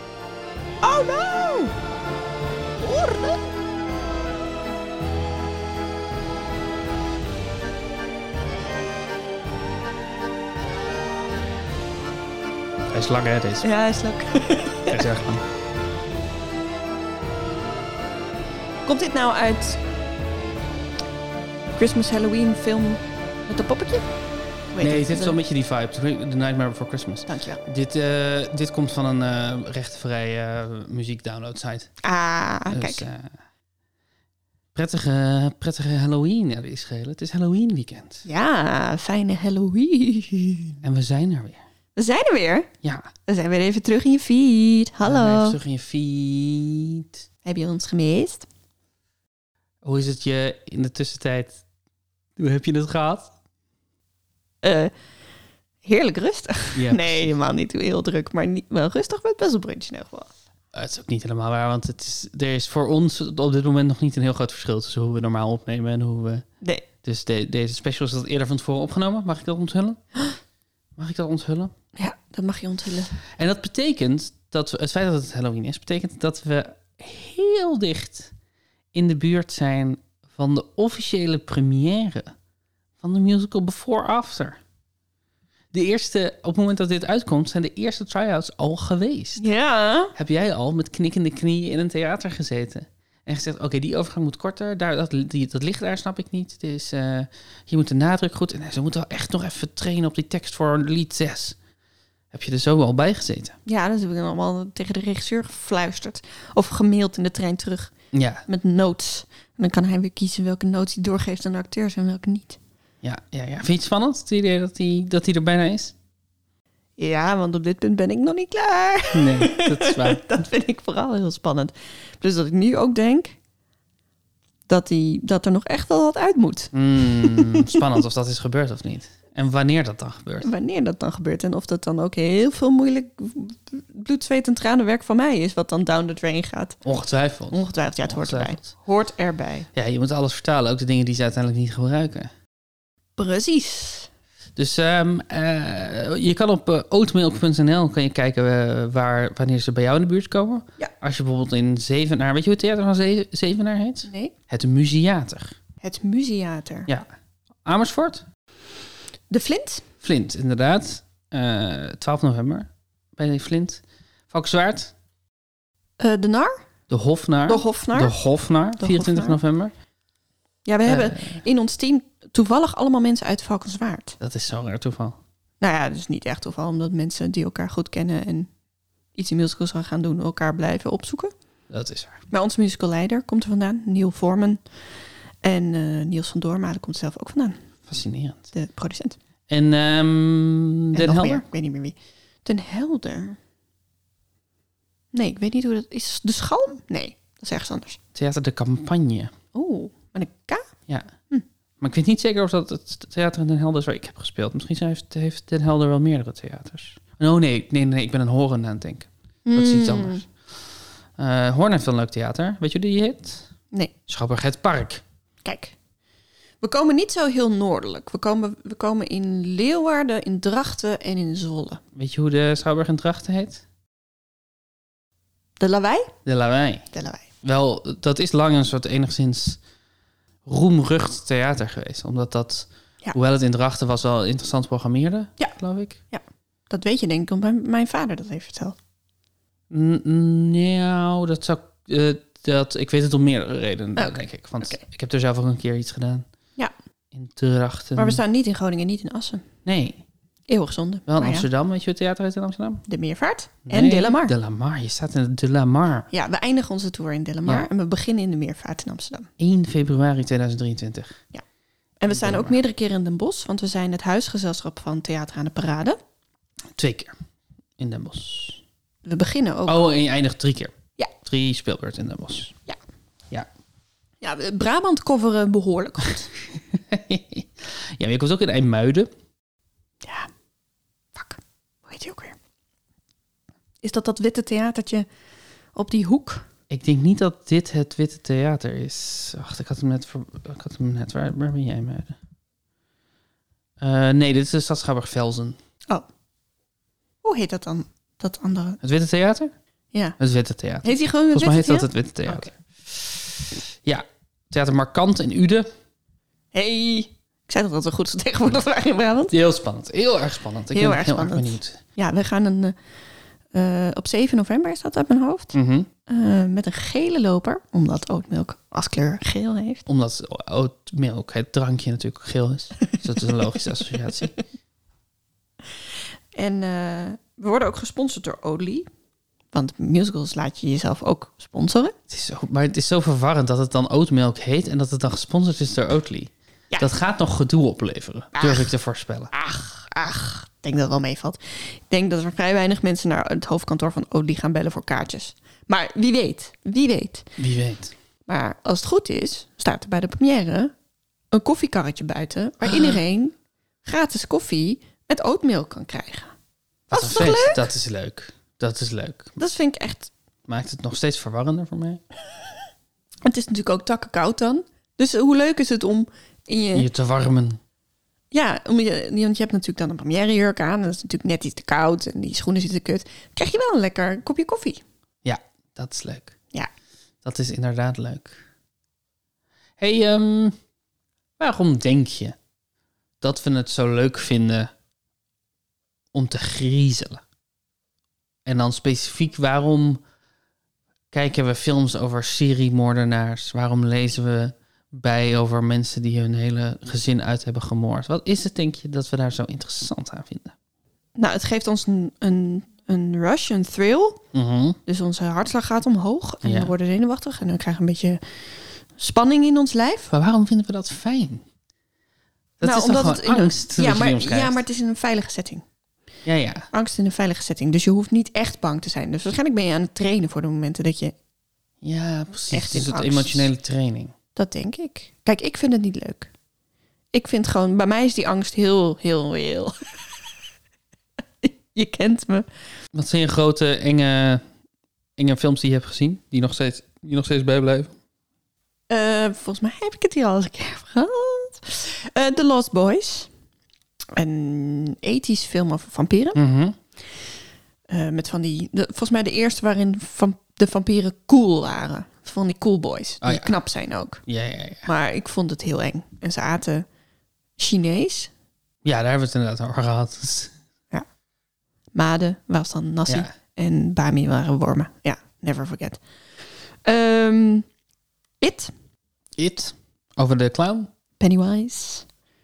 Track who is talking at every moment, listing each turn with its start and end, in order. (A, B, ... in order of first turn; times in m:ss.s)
0:00.8-0:01.8 A
0:02.8-0:03.4 A
0:12.9-0:13.7 B
0:13.6-0:15.1 A
0:14.9-0:15.4 B
0:18.9-0:19.8 A
0:21.8-0:24.1 A
0:24.7-0:25.4 A
0:24.8-0:31.9 B
0:27.3-0:27.6 A
0:32.0-0:33.0 A
0:32.7-0:33.3 B
0:34.7-0:38.3 B
0:38.2-0:40.8 A
0:40.8-0:41.6 B
0:42.0-0:42.7 A
0:42.8-0:43.1 B
0:43.3-0:45.6 A
0:45.0-0:47.2 B
0:47.4-0:48.5 A
0:49.8-0:51.6 B
0:52.4-0:53.3 B
0:54.6-0:54.9 A
0:55.8-1:00.3 A
0:56.7-0:57.3 B
1:00.7-1:06.5 B
1:07.0-1:10.0 B
1:11.0-1:11.7 B
1:12.0-1:13.1 A
1:13.4-1:18.3 B
1:18.9-1:22.3 B
1:23.0-1:24.6 B
1:25.7-1:29.4 B
1:29.4-1:30.1 A
1:30.2-1:41.6 B
1:42.3-1:43.6 B
1:43.7-1:47.9 A
1:48.1-1:48.4 B
1:48.5-1:52.6 A
1:53.0-1:56.0 B
1:57.0-2:03.4 A
1:59.1-2:00.3 B
2:04.7-2:07.9 A
2:06.7-2:10.5 B
2:10.4-2:16.8 A
2:16.8-2:18.6 B
2:17.5-2:19.7 A
2:19.7-2:22.3 B
2:23.2-2:24.1 A
2:24.6-2:35.6 B
2:34.1-2:34.4 A
2:35.8-2:36.9 A
2:37.6-2:38.2 B
2:39.3-2:39.8 A
2:40.0-2:44.9 B
2:46.0-2:46.6 A
2:46.9-2:49.7 B
2:47.5-2:48.2 A
2:48.8-2:49.4 A
2:50.7-2:54.2 A
2:50.9-2:51.4 B
2:54.2-2:55.2 B
2:55.6-2:58.5 A
2:59.2-3:01.3 A
3:01.7-3:02.2 B
3:02.3-3:04.6 A
3:05.4-3:07.6 A
3:07.9-3:08.5 B
3:08.5-3:09.2 A
3:09.5-3:11.4 B
3:10.9-3:13.4 A
3:15.1-3:18.0 A
3:18.2-3:19.3 B
3:19.5-3:20.7 A
3:21.8-3:30.3 B
3:29.5-3:30.2 A
3:31.2-3:33.5 B
3:34.1-3:35.0 B
3:35.4-3:35.8 A
3:36.6-3:41.8 A
3:42.0-3:43.6 B
3:45.6-3:46.1 A
3:46.3-3:46.9 B
3:46.9-3:47.2 A
3:47.4-3:49.6 B
3:50.5-3:56.0 B
3:56.1-3:58.8 A
3:59.7-4:06.3 B
4:04.0-4:04.8 A
4:07.1-4:08.2 B
4:08.0-4:09.4 A
4:09.7-4:10.0 B
4:10.5-4:11.5 A
4:11.1-4:12.8 B
4:12.9-4:14.3 A
4:13.7-4:16.1 B
4:16.1-4:19.3 A
4:19.4-4:21.2 B
4:22.0-4:26.0 A
4:22.1-4:22.6 B
4:26.8-4:27.2 B
4:27.8-4:28.6 B
4:29.0-4:29.8 A
4:29.7-4:32.5 B
4:34.2-4:36.3 A
4:36.7-4:39.1 B
4:40.0-4:40.3 A
4:41.2-4:42.4 A
4:43.8-4:45.1 A
4:45.8-4:46.4 A
4:46.7-4:52.2 B
4:53.8-4:55.6 B
4:57.2-4:58.8 A
4:58.8-4:59.5 B
5:00.2-5:02.5 B
5:00.8-5:02.5 A
5:03.8-5:05.7 B
5:06.5-5:09.3 A
5:09.3-5:11.8 B
5:10.7-5:12.8 A
5:13.5-5:15.6 A
5:15.5-5:15.9 B
5:16.1-5:19.8 A
5:19.9-5:24.4 B
5:26.4-5:28.9 A
5:29.5-5:32.0 A
5:32.1-5:39.3 B
5:38.4-5:38.7 A
5:39.3-5:47.3 A
5:47.4-5:47.9 B
5:48.3-5:50.7 A
5:51.3-5:56.3 A
5:52.6-5:53.0 B
5:56.9-5:57.6 A
5:56.9-5:59.4 B
5:59.4-6:00.1 A
6:00.5-6:02.0 B
6:03.2-6:06.9 A
6:06.7-6:07.6 B
6:08.3-6:14.8 A
6:15.2-6:16.4 B
6:17.2-6:18.4 B
6:19.8-6:20.6 B
6:21.4-6:22.4 B
6:23.2-6:24.7 B
6:26.1-6:27.2 B
6:28.5-6:30.0 B
6:31.1-6:40.6 B
6:41.2-6:44.2 A
6:44.3-6:44.8 B
6:44.9-6:48.2 A
6:46.4-6:46.7 B
6:49.0-6:50.1 A
6:50.1-6:51.4 B
6:52.6-6:54.6 B
6:52.6-6:55.6 A
6:56.3-6:56.7 B
6:56.7-7:01.2 A
7:01.8-7:04.1 B
7:02.5-7:03.5 A
7:04.4-7:06.3 A
7:07.1-7:10.0 A
7:11.4-7:12.5 A
7:12.9-7:14.4 B
7:15.2-7:17.9 B
7:18.9-7:23.3 A
7:24.2-7:26.4 A
7:26.4-7:26.8 B
7:27.9-7:34.2 A
7:33.2-7:33.6 B
7:34.3-7:34.9 B
7:34.8-7:36.9 A
7:37.6-7:38.3 A
7:38.8-7:40.5 B
7:41.9-7:46.0 A
7:46.8-7:47.7 A
7:48.4-7:48.7 A
7:49.4-7:50.9 B
7:51.2-7:52.1 A